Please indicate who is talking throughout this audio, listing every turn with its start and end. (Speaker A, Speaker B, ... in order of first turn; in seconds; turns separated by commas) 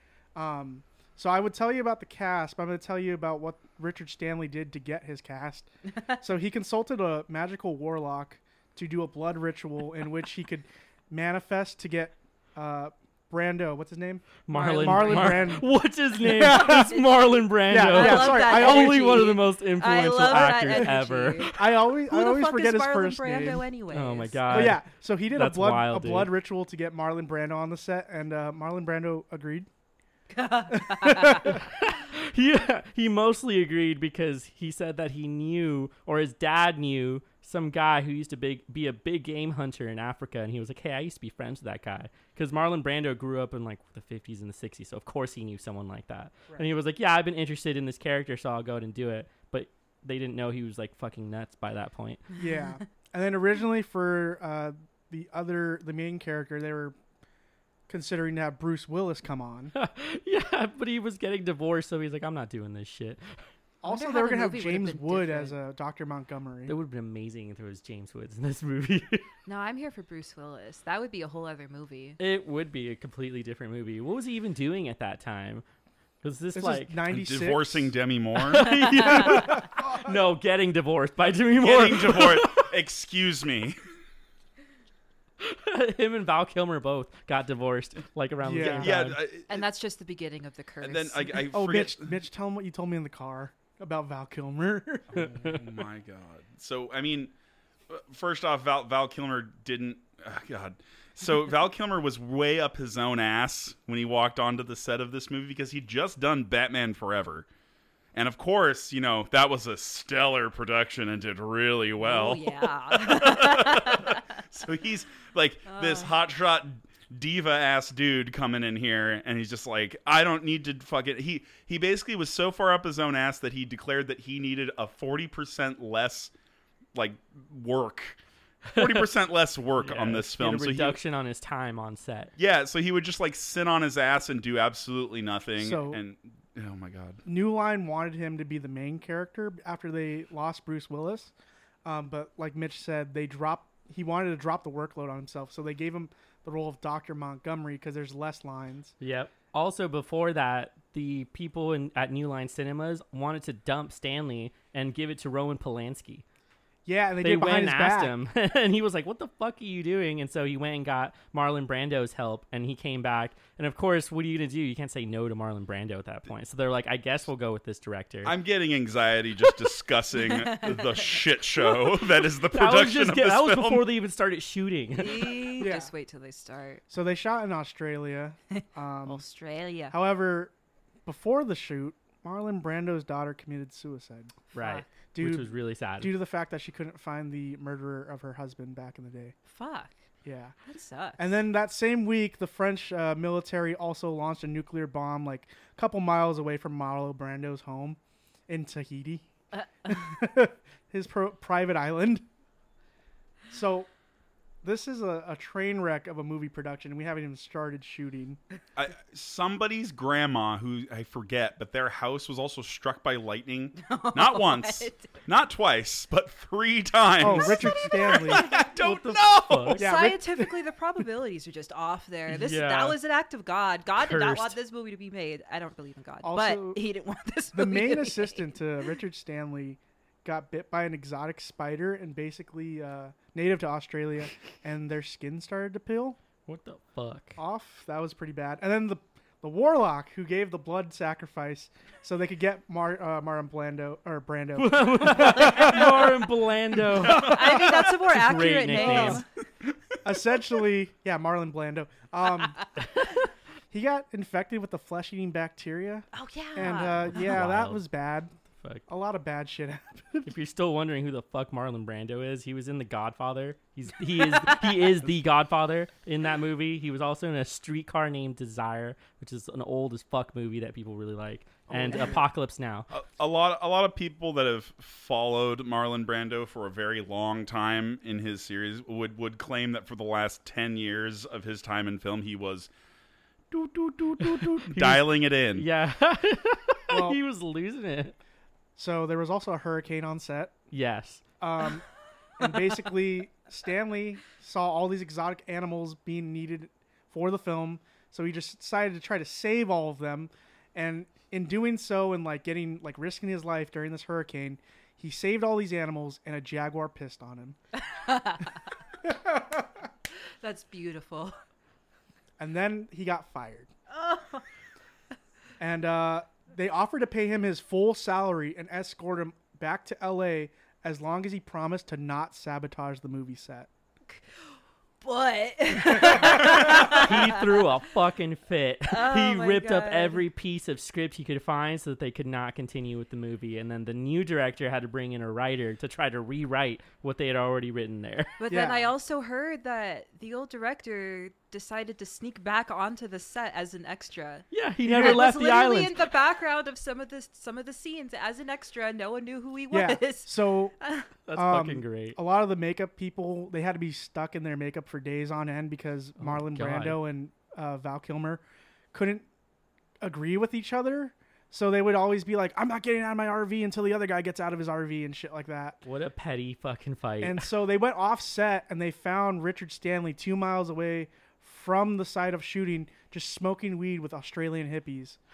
Speaker A: 0.3-15.7, Speaker B: 14.5-21.6, Speaker C: 14.5-15.7, Speaker A: 16.2-17.0, Speaker C: 16.3-24.8, Speaker A: 17.7-19.3, Speaker A: 20.3-23.7, Speaker B: 23.9-26.3, Speaker A: 24.5-29.7, Speaker C: 30.3-31.6, Speaker A: 30.7-31.6, Speaker B: 31.4-52.2, Speaker A: 52.4-56.9, Speaker A: 57.9-59.7, Speaker B: 59.7-63.4, Speaker A: 63.8-66.7, Speaker C: 63.8-65.5, Speaker B: 66.7-69.2, Speaker C: 69.5-72.2, Speaker B: 72.2-75.6, Speaker B: 76.2-77.0, Speaker A: 76.5-77.9, Speaker D: 77.1-78.9, Speaker B: 78.3-82.7, Speaker A: 79.1-80.2, Speaker D: 81.6-83.8, Speaker B: 85.4-89.2, Speaker A: 88.4-88.9, Speaker D: 88.8-89.6, Speaker C: 89.5-91.5, Speaker D: 90.8-92.2, Speaker A: 91.5-95.3, Speaker D: 95.1-97.3, Speaker B: 95.2-95.6, Speaker D: 97.9-107.5, Speaker D: 108.1-126.3, Speaker C: 112.0-114.2, Speaker C: 115.7-116.1, Speaker D: 126.9-128.2, Speaker D: 128.7-131.0, Speaker B: 128.7-129.1, Speaker B: 129.8-132.3, Speaker D: 132.4-137.2, Speaker A: 135.6-136.0, Speaker A: 137.2-141.3, Speaker A: 141.8-148.9, Speaker B: 149.0-156.2, Speaker A: 156.8-158.1, Speaker B: 157.2-168.3, Speaker D: 168.2-173.9, Speaker C: 170.2-172.0, Speaker B: 172.5-175.5, Speaker C: 174.9-176.8, Speaker A: 175.6-175.9, Speaker A: 176.9-179.2, Speaker C: 179.1-179.9, Speaker A: 179.9-180.5, Speaker A: 181.1-184.3, Speaker B: 184.5-186.1, Speaker C: 184.6-184.9, Speaker A: 185.1-189.3, Speaker C: 189.4-190.0, Speaker A: 190.2-190.5, Speaker C: 190.7-191.4, Speaker A: 191.2-199.3, Speaker C: 199.5-200.2, Speaker A: 199.8-202.2, Speaker A: 203.5-203.9, Speaker A: 204.6-208.4, Speaker D: 208.8-219.8, Speaker C: 213.8-215.1, Speaker A: 217.2-218.5, Speaker C: 217.9-218.6, Speaker B: 218.8-219.9, Speaker C: 219.7-228.6, Speaker A: 219.8-220.5, Speaker B: 222.3-223.0, Speaker B: 224.0-224.6, Speaker A: 226.2-226.8, Speaker A: 227.5-236.2, Speaker B: 236.4-237.4, Speaker A: 237.4-246.3, Speaker B: 244.6-249.2, Speaker A: 246.9-247.7, Speaker C: 247.0-249.2, Speaker D: 247.0-247.7, Speaker A: 248.7-249.2, Speaker A: 250.0-252.6, Speaker A: 253.7-258.3, Speaker C: 256.1-257.4, Speaker B: 257.1-257.8, Speaker B: 258.6-258.8, Speaker A: 258.9-260.3, Speaker B: 260.2-272.9, Speaker C: 264.2-264.8, Speaker A: 271.7-272.1, Speaker D: 272.9-282.7, Speaker D: 283.5-285.6, Speaker B: 284.2-288.1, Speaker A: 286.9-287.2, Speaker A: 288.8-290.5, Speaker B: 290.7-291.2, Speaker A: 291.4-291.9, Speaker A: 292.4-307.6, Speaker C: 292.5-292.7, Speaker C: 307.7-308.7, Speaker A: 309.0-309.9, Speaker C: 310.4-311.3, Speaker A: 312.4-313.7, Speaker C: 313.9-314.4, Speaker A: 315.6-323.7, Speaker C: 325.0-327.7, Speaker A: 326.0-326.5, Speaker B: 326.4-338.4, Speaker C: 328.9-330.2, Speaker C: 338.4-351.1, Speaker A: 338.5-338.9, Speaker B: 344.5-346.1, Speaker A: 344.9-345.2, Speaker A: 349.7-350.7, Speaker B: 351.2-352.2, Speaker A: 351.3-358.4, Speaker B: 356.2-357.0, Speaker A: 358.9-359.2, Speaker A: 360.0-365.8, Speaker B: 365.8-367.5, Speaker A: 367.2-375.2